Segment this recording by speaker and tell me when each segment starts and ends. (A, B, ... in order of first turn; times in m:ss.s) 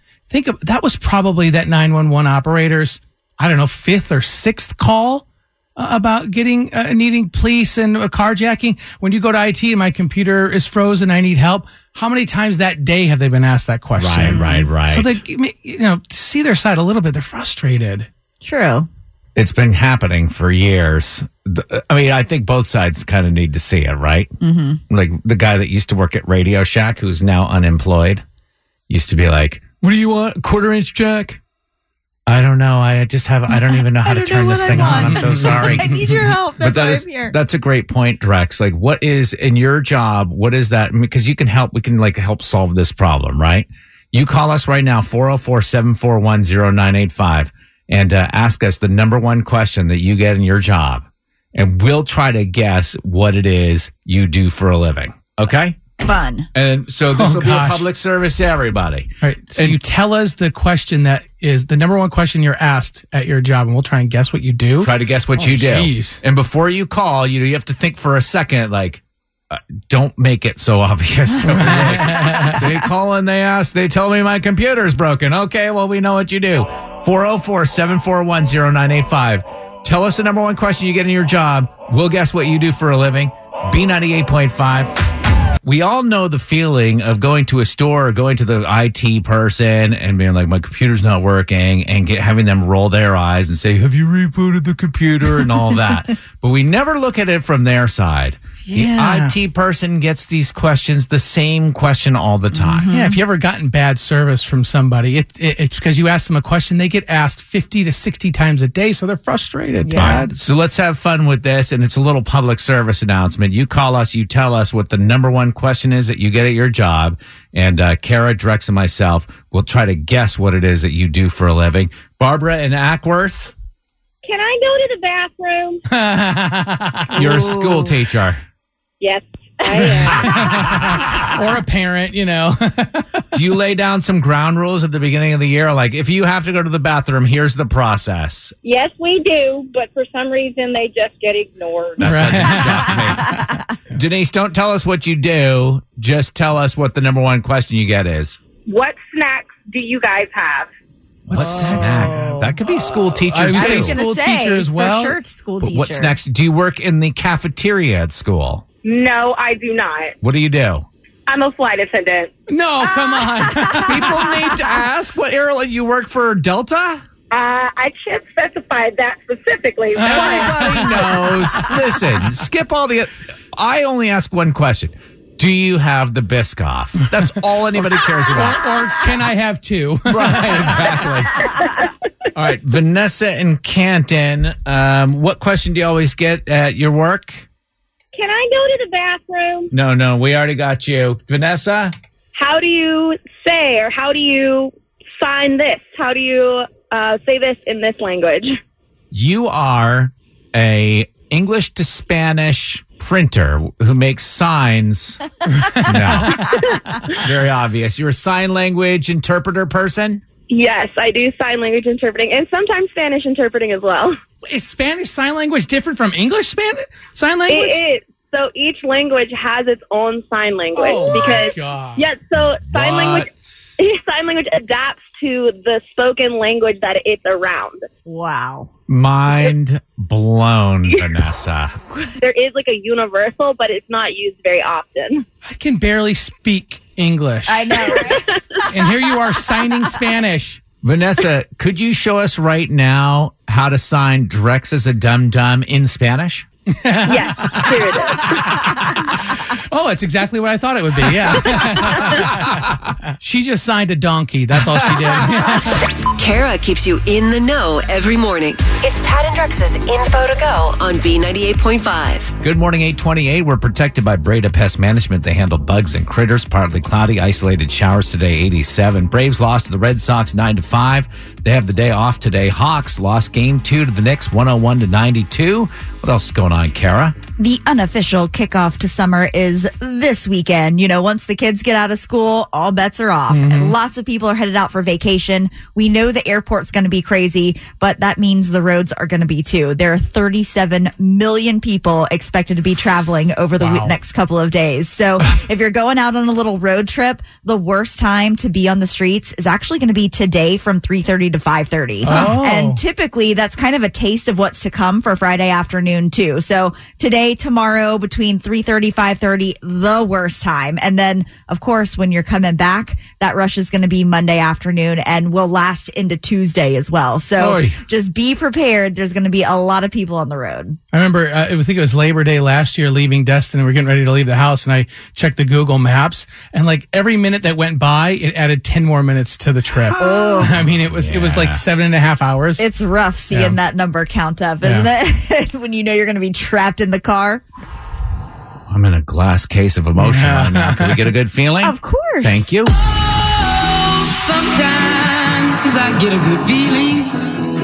0:00.3-0:18.1 A
0:14.0-0:15.2 B
0:14.3-0:14.7 C
0:18.4-0:18.9 C
0:19.4-0:24.3 B
0:24.4-0:24.8 C
0:24.9-0:28.2 B
0:28.9-0:31.4 B
0:32.3-0:55.8 B
0:33.5-0:37.4 C
0:34.8-0:35.8 A
0:56.0-0:56.5 C
0:56.5-0:59.8 B
0:57.1-0:57.8 A
0:59.2-1:06.2 A
1:04.8-1:24.9 B
1:11.5-1:12.8 A
1:25.6-1:42.9 B
1:38.6-1:39.4 A
1:42.5-1:43.2 C
1:42.9-1:50.3 A
1:49.8-1:50.3 C
1:50.0-2:03.5 B
2:04.2-2:05.8 D
2:05.9-2:07.8 A
2:07.1-2:08.4 B
2:09.0-2:10.6 D
2:10.0-2:13.2 A
2:13.3-2:18.5 B
2:18.6-2:22.2 D
2:22.0-2:28.4 B
2:22.0-2:23.4 A
2:28.7-2:30.7 D
2:31.3-2:34.0 B
2:31.3-2:32.5 A
2:31.8-2:32.5 C
2:33.1-2:35.2 A
2:33.5-2:36.2 C
2:35.6-2:38.6 B
2:38.8-2:40.2 D
2:40.2-2:40.9 B
2:41.3-2:42.3 D
2:42.5-2:44.2 A
2:43.9-2:47.0 B
2:47.3-2:51.1 D
2:50.0-2:51.6 A
2:50.1-2:58.6 B
2:58.3-3:01.0 A
3:00.1-3:01.7 B
3:02.3-3:07.4 B
3:08.1-3:09.7 D
3:09.7-3:11.9 B
3:12.4-3:18.6 D
3:19.1-3:25.2 B
3:25.7-3:26.4 A
3:25.8-3:30.2 B
3:30.5-3:34.2 D
3:34.4-3:37.8 A
3:37.5-3:47.9 D
3:40.8-3:42.0 A
3:42.7-3:43.7 B
3:48.1-3:48.7 C
3:48.9-3:51.8 B
3:52.2-3:55.3 D
3:55.4-3:57.8 A
3:57.5-3:58.3 C
3:58.0-3:58.4 D
3:58.7-4:00.6 A
4:00.8-4:06.5 B
4:06.8-4:15.8 A
4:07.0-4:08.5 D
4:16.2-4:22.3 E
4:22.4-4:37.2 B
4:37.4-5:20.8 C
4:43.3-4:43.8 A
4:53.6-4:53.9 A
5:02.0-5:02.8 A
5:17.4-5:17.8 B
5:20.9-5:32.6 A
5:29.9-5:31.6 B
5:30.0-5:30.6 C
5:32.6-5:37.4 C
5:33.3-5:33.6 A
5:34.6-5:34.9 A
5:38.7-5:42.8 B
5:40.0-5:41.1 A
5:41.6-5:42.4 C
5:44.1-5:47.3 F